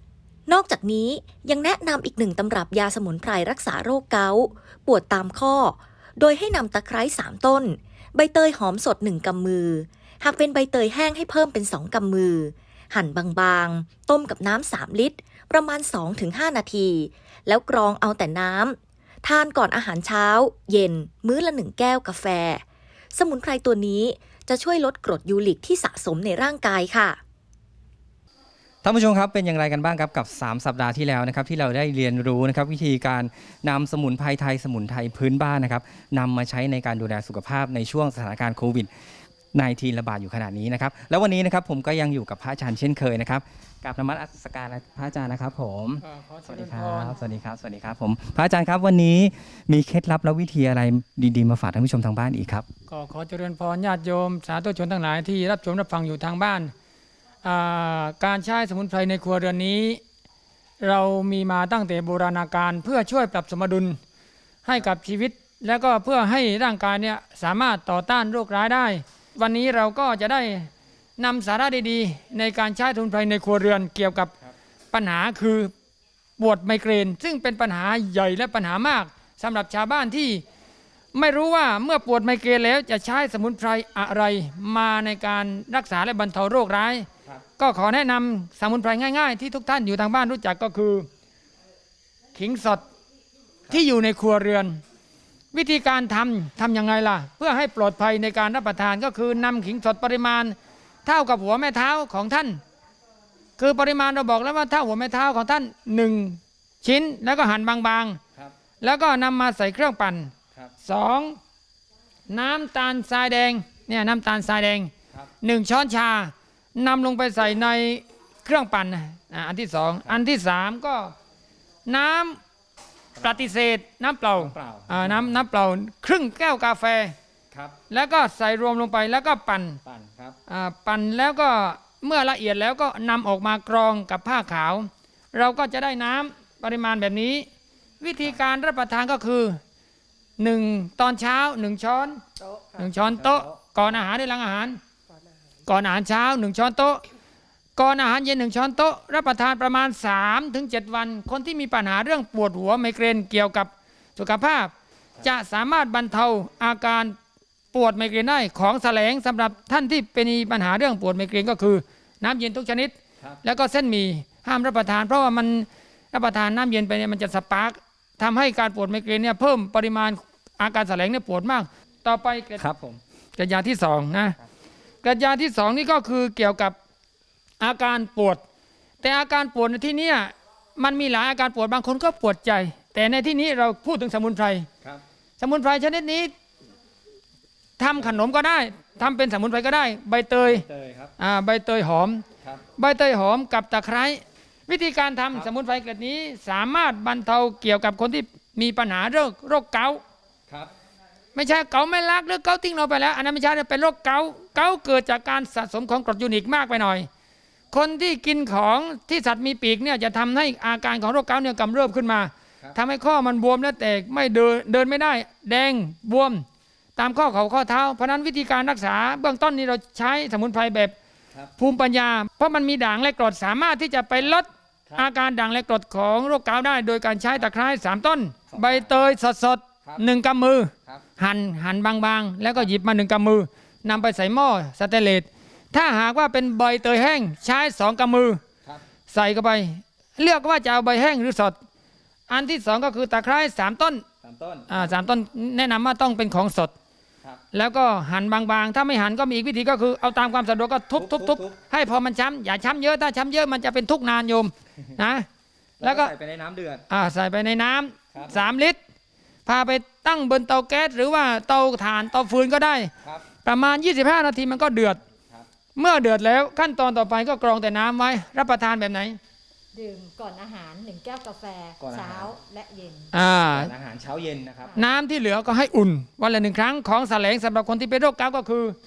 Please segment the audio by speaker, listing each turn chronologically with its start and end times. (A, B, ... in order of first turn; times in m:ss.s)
0:00.5-0:27.2 A
0:28.8-0:38.9 B
0:39.5-0:52.7 B
0:46.1-0:47.2 C
0:52.9-0:56.7 C
0:57.4-1:00.0 C
1:00.8-1:04.0 C
1:04.7-1:14.3 C
1:14.9-1:15.7 C
1:16.4-1:20.4 C
1:21.1-1:27.1 C
1:27.6-1:31.1 C
1:32.4-1:32.8 C
1:33.7-1:34.8 C
1:35.5-1:42.6 C
1:43.6-1:48.2 C
1:48.8-1:51.4 C
1:52.3-2:01.1 C
2:01.9-2:02.4 C
2:03.2-2:03.5 B
2:03.2-2:07.2 C
2:04.4-2:05.4 B
2:07.5-2:07.8 B
2:07.9-2:09.8 C
2:09.8-2:10.4 B
2:10.5-2:17.5 C
2:18.0-2:19.6 C
2:20.4-2:22.2 C
2:22.8-2:24.8 C
2:22.8-2:24.0 B
2:25.7-2:27.0 C
2:27.8-2:37.2 C
2:37.7-2:52.6 C
2:52.6-2:53.0 B
2:53.4-2:54.4 C
2:55.0-2:56.8 C
2:57.6-2:58.4 C
2:59.0-3:04.7 C
3:05.4-3:06.3 C
3:07.8-3:10.6 C
3:10.5-3:11.1 B
3:11.2-3:12.2 C
3:12.8-3:20.0 C
3:21.4-3:27.1 C
3:27.7-3:36.4 C
3:37.0-3:41.0 C
3:41.6-3:58.4 C
3:48.5-3:49.2 B
3:59.1-4:01.6 C
4:02.3-4:04.0 C
4:04.2-4:04.9 B
4:04.7-4:06.7 C
4:07.5-4:15.3 C
4:11.0-4:11.6 B
4:15.8-4:16.8 B
4:15.8-4:16.1 C
4:16.9-4:18.8 C
4:18.1-4:18.4 B
4:19.5-4:22.9 C
4:23.4-4:25.0 C
4:25.8-4:29.2 C
4:29.7-4:33.1 D
4:31.8-4:32.4 B
4:33.1-4:33.7 C
4:33.5-4:34.7 B
4:34.8-4:38.8 C